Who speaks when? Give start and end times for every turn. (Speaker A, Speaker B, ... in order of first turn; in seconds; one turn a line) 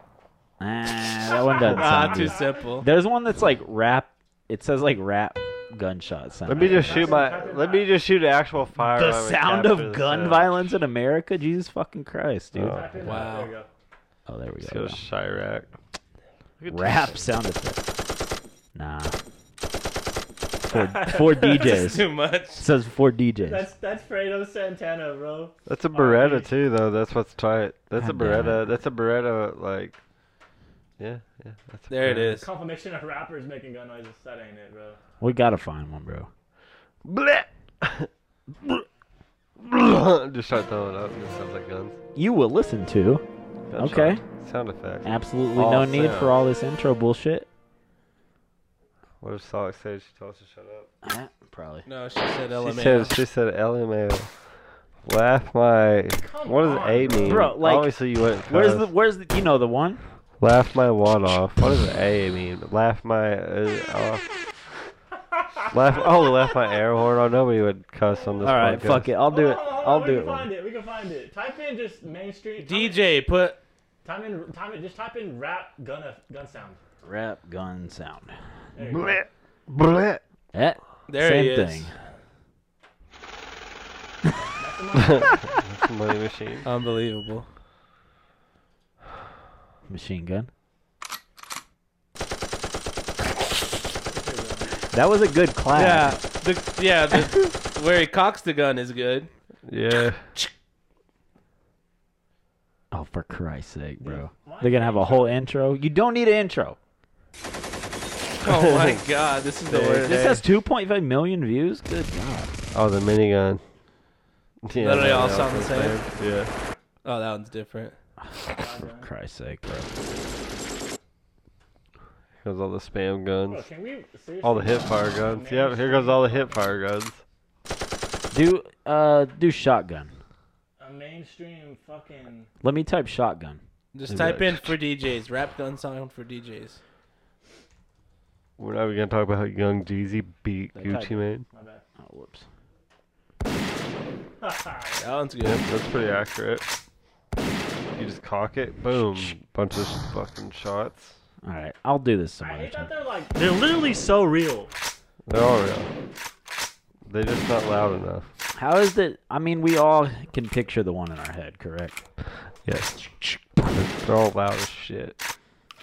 Speaker A: 0.6-7.3
Speaker B: 1.4-2.5
Speaker C: 1.7-2.9
Speaker D: 6.5-10.8
Speaker B: 6.5-7.9
Speaker A: 8.8-13.2
Speaker D: 12.5-13.2
Speaker B: 12.7-13.7
Speaker C: 13.0-13.6
Speaker A: 14.2-15.0
Speaker D: 14.6-15.7
Speaker D: 16.6-16.9
Speaker B: 16.7-17.1
Speaker A: 16.7-17.8
Speaker A: 18.7-19.2
Speaker A: 20.6-23.7
Speaker B: 20.7-21.8
Speaker C: 21.4-22.6
Speaker B: 23.4-26.5
Speaker D: 25.7-30.0
Speaker A: 27.9-28.7
Speaker D: 31.0-32.2
Speaker C: 31.9-32.5
Speaker B: 32.2-35.0
Speaker A: 35.2-36.3
Speaker D: 37.0-38.1
Speaker D: 39.6-42.0
Speaker A: 42.1-43.2
Speaker D: 43.7-46.3
Speaker A: 43.8-44.2
Speaker A: 45.0-47.5
Speaker D: 49.2-50.9
Speaker A: 51.0-51.8
Speaker C: 51.9-53.2
Speaker D: 52.6-54.3
Speaker D: 55.0-58.9
Speaker B: 56.2-57.5
Speaker A: 57.2-60.0
Speaker D: 60.4-64.3
Speaker B: 65.3-65.8
Speaker D: 65.7-69.1
Speaker B: 66.3-66.5
Speaker B: 68.2-73.0
Speaker A: 68.4-70.5
Speaker C: 72.6-73.6
Speaker B: 74.0-76.8
Speaker A: 77.0-78.3
Speaker B: 78.8-79.2
Speaker D: 78.9-80.2
Speaker A: 80.5-81.9
Speaker C: 81.1-81.9
Speaker B: 84.4-85.5
Speaker D: 85.0-86.7
Speaker C: 86.6-87.5
Speaker A: 89.9-90.5
Speaker B: 94.1-94.8
Speaker A: 94.9-96.2
Speaker C: 95.7-99.3
Speaker D: 99.7-100.3
Speaker C: 99.9-100.5
Speaker A: 102.9-106.8
Speaker B: 104.0-105.4
Speaker C: 108.4-110.3
Speaker D: 108.4-109.0
Speaker D: 109.7-110.4
Speaker A: 109.7-112.5
Speaker D: 112.7-113.6
Speaker D: 114.6-116.5
Speaker C: 114.7-116.0
Speaker C: 117.0-118.0
Speaker A: 118.3-120.0
Speaker B: 118.5-119.1
Speaker D: 122.4-123.7
Speaker B: 123.5-126.7
Speaker D: 124.4-127.2
Speaker A: 128.3-130.1
Speaker B: 130.8-132.5
Speaker A: 132.6-133.6
Speaker C: 133.9-136.8
Speaker D: 134.1-134.8
Speaker D: 138.6-141.4
Speaker A: 140.7-141.2
Speaker B: 141.5-141.8
Speaker A: 142.0-142.4
Speaker B: 144.4-145.0
Speaker C: 145.0-145.6
Speaker D: 145.4-146.6
Speaker D: 147.9-151.1
Speaker A: 151.4-152.9
Speaker B: 152.4-154.7
Speaker D: 155.3-155.9
Speaker D: 157.1-158.2
Speaker A: 158.5-162.0
Speaker D: 162.6-165.2